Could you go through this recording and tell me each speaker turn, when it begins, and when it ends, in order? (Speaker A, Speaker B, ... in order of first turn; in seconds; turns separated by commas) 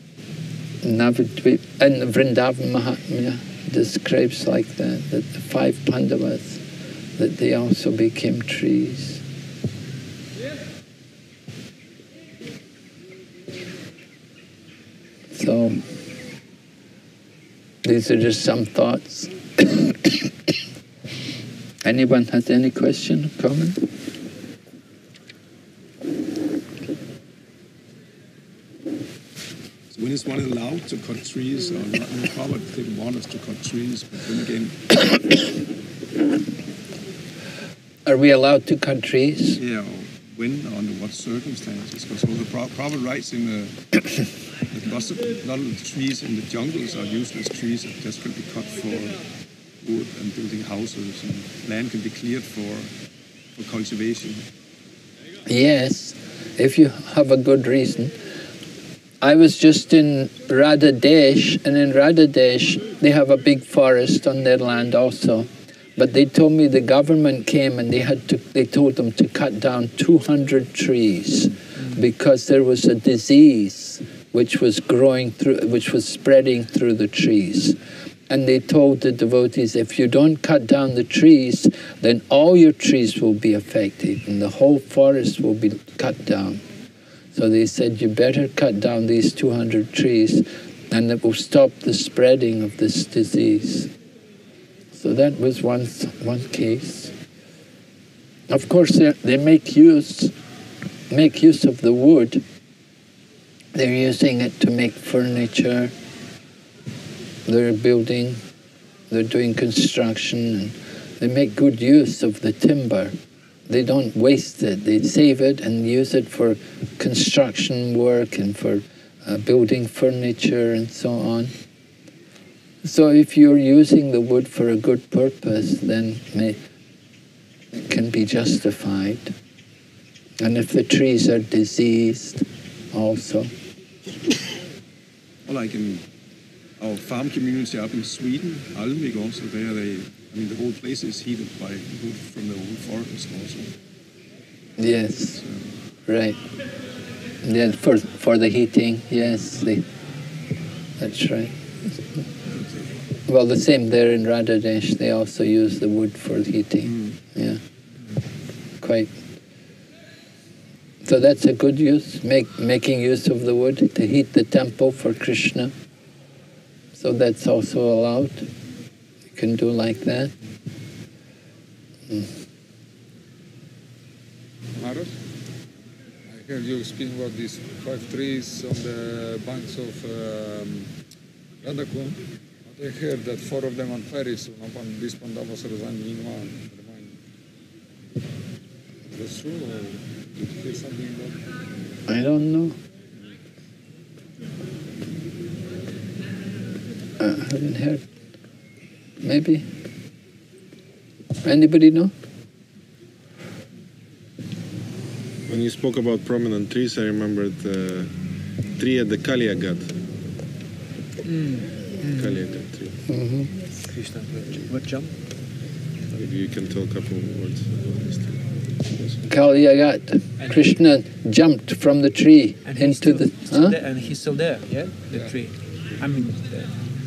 Speaker A: 0.8-6.6, Speaker A: 7.2-9.2, Speaker A: 15.3-15.8, Speaker A: 17.8-20.1, Speaker A: 21.9-23.8, Speaker B: 29.9-35.4, Speaker A: 38.1-39.6, Speaker B: 39.6-49.2, Speaker B: 49.8-52.9, Speaker B: 53.6-54.5, Speaker A: 55.5-58.1, Speaker A: 59.2-77.8, Speaker A: 78.3-86.6, Speaker A: 87.3-93.9, Speaker A: 94.9-97.1, Speaker A: 98.5-100.3, Speaker A: 101.1-102.4, Speaker A: 103.7-105.9, Speaker A: 107.5-108.4, Speaker A: 109.1-113.2, Speaker A: 113.7-121.5, Speaker A: 122.8-126.6, Speaker A: 127.7-129.3, Speaker A: 130.4-133.5, Speaker B: 135.5-136.0, Speaker B: 136.8-143.7, Speaker A: 144.8-145.4, Speaker A: 146.1-146.4, Speaker A: 147.4-149.8, Speaker A: 151.0-151.5, Speaker A: 153.3-157.6, Speaker A: 158.8-159.1, Speaker A: 161.0-165.7, Speaker A: 166.9-168.5, Speaker A: 169.3-170.3, Speaker C: 174.8-175.1, Speaker C: 176.3-180.9, Speaker C: 181.6-187.2, Speaker C: 189.1-191.4, Speaker A: 192.1-192.8, Speaker A: 197.2-198.0, Speaker A: 199.2-199.7, Speaker A: 201.4-202.1, Speaker D: 205.5-208.1, Speaker D: 208.8-209.9, Speaker E: 211.2-212.4, Speaker D: 212.0-213.0, Speaker A: 213.1-213.5, Speaker E: 213.8-215.2, Speaker D: 216.1-218.4, Speaker A: 219.3-223.8, Speaker E: 222.7-226.7